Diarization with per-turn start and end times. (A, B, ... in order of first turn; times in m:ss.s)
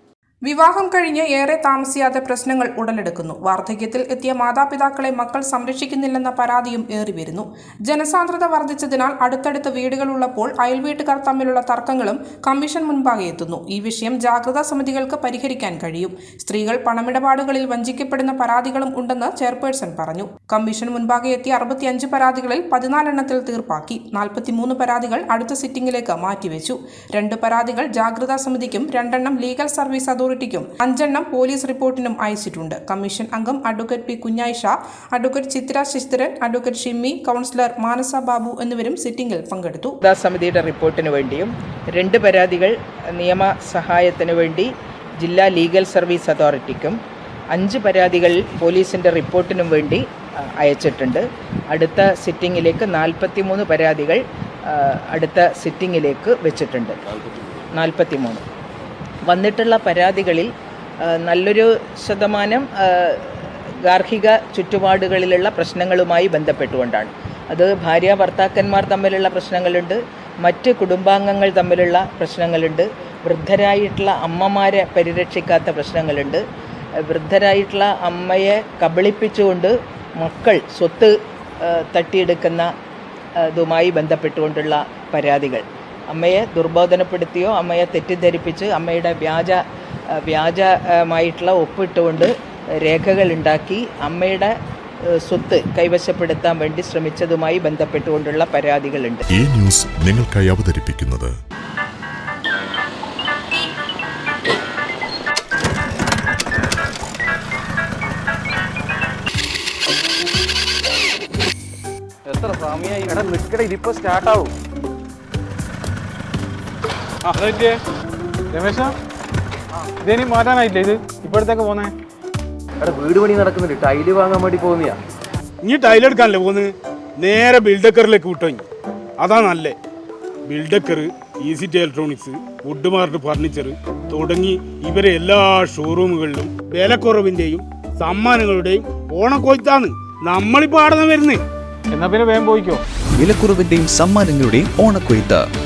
0:00.4-0:40.0 A
0:40.0-0:47.0 B
0:47.5-0:50.0 B
0:50.6-0:57.0 B
0:57.7-0:58.4 B
0:59.3-1:00.5 B
1:01.0-1:16.4 B
1:17.0-1:22.7 B
1:23.4-1:29.6 B
1:30.1-1:34.5 B
1:35.2-1:39.2 B
1:39.3-1:41.3 C
1:52.4-1:53.2 D
1:53.1-1:54.5 E
1:57.3-1:57.8 D
1:58.5-1:58.9 D
2:00.0-2:01.9 D
2:02.8-2:05.0 E
2:05.6-2:08.6 F
2:09.2-2:09.8 F
2:10.4-2:21.4 F
2:21.9-2:22.8 D
2:23.2-2:25.4 G